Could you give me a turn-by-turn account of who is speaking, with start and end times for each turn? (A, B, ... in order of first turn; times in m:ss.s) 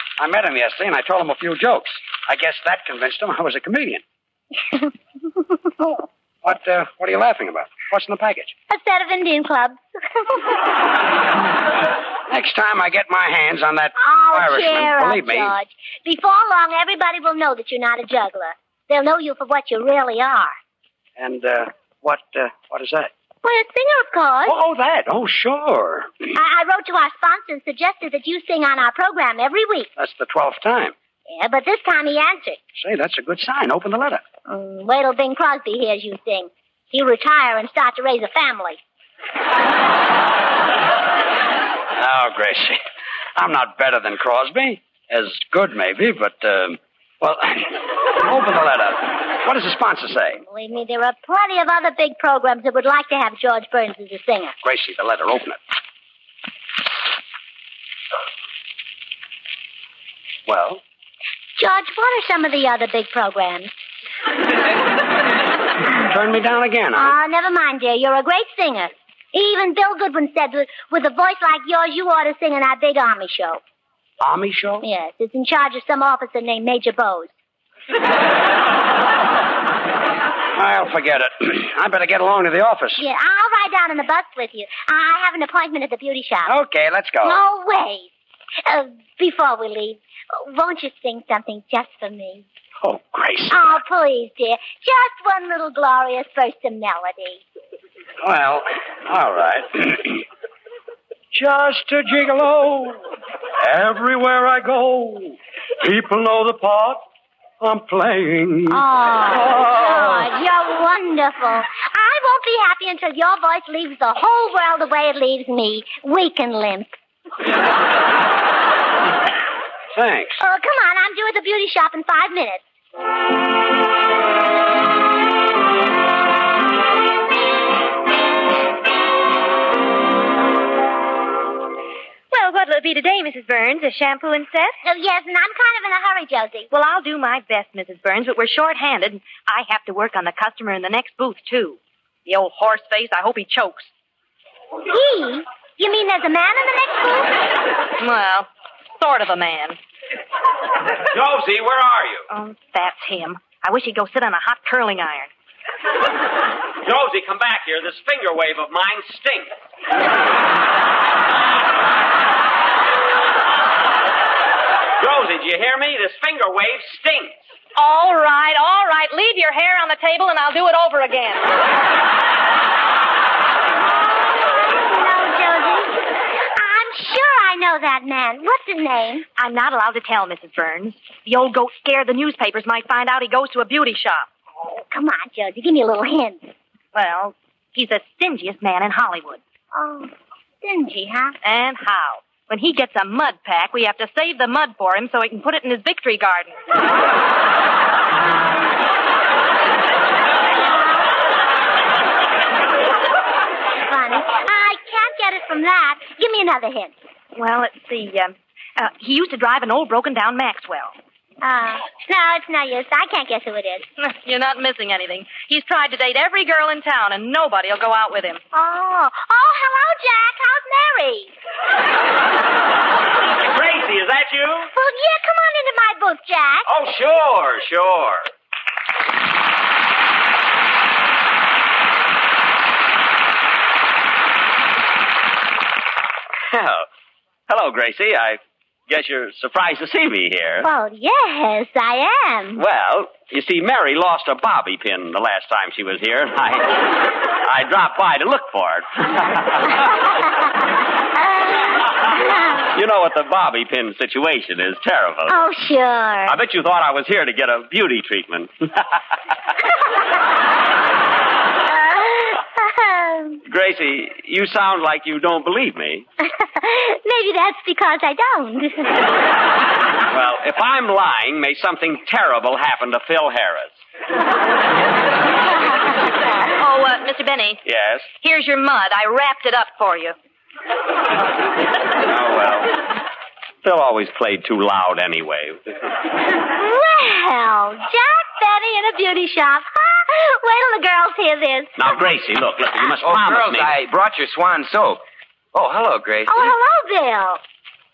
0:00.2-0:04.0 A
0:06.4-0:08.5 A
0:08.7-0:10.4 B
0:12.3-0:15.5 A
0:14.0-0:20.6 B
0:21.2-0:23.1 A
0:23.4-0:24.6 B
0:24.4-0:26.2 A
0:26.3-0:29.9 B
0:30.0-0:30.9 A
0:31.3-0:32.6 B
0:32.8-0:34.2 A
0:34.5-0:38.8 B
0:42.0-0:42.7 A
0:43.4-0:47.6 A
0:48.2-0:50.4 A
0:50.4-0:54.5 B
0:54.6-0:55.6 A
1:00.5-1:00.8 A
1:01.6-1:03.7 B
1:06.1-1:07.1 A
1:06.9-1:13.6 B
1:14.2-1:14.8 A
1:14.8-1:17.3 B
1:20.6-1:23.0 A
1:23.0-1:26.5 B
1:26.5-1:27.3 A
1:27.2-1:28.1 B
1:28.6-1:32.4 B
1:32.8-1:33.8 A
1:33.5-1:37.4 B
1:38.2-1:40.2 A
1:41.3-1:43.0 A
1:43.6-1:47.0 A
1:47.6-1:48.8 A
1:48.7-1:56.9 B
1:59.9-2:00.4 A
2:00.4-2:02.6 B
2:12.3-2:14.7 C
2:14.8-2:16.7 B
2:16.7-2:23.9 C
2:24.9-2:27.4 B
2:28.0-2:29.8 C
2:31.1-2:32.2 D
2:32.3-2:35.3 C
2:36.8-2:39.5 D
2:45.0-2:47.4 D
2:47.8-2:51.5 C
2:54.4-2:56.0 B
2:56.6-2:59.2 B
2:59.4-3:04.3 C
3:04.6-3:06.5 B
3:06.9-3:09.4 C
3:09.7-3:10.1 B
3:10.6-3:11.4 B
3:11.4-3:16.6 C
3:20.5-3:21.1 B
3:23.9-3:26.9 B
3:27.3-3:31.0 C
3:31.4-3:33.8 B
3:34.0-3:38.4 C
3:38.5-3:41.3 B
3:43.3-3:44.7 D
3:44.7-3:46.7 B
3:46.7-3:48.3 D
3:56.5-3:56.8 D
3:57.5-4:00.7 D
4:00.6-4:02.6 B
4:02.6-4:06.9 D
4:07.4-4:09.8 D
4:11.2-4:12.7 B
4:12.7-4:15.3 D
4:15.3-4:16.4 B
4:16.3-4:18.9 D
4:21.7-4:23.4 B
4:23.5-4:26.0 D
4:26.2-4:29.0 B
4:30.1-4:33.8 D
4:36.6-4:37.6 C
4:37.6-4:38.1 D
4:38.1-4:40.1 C
4:42.0-4:42.7 D
4:43.6-4:45.6 D
4:46.5-4:51.7 B
4:51.8-4:53.7 D
4:53.0-4:55.0 E
4:55.5-4:56.5 E
4:56.3-4:57.4 B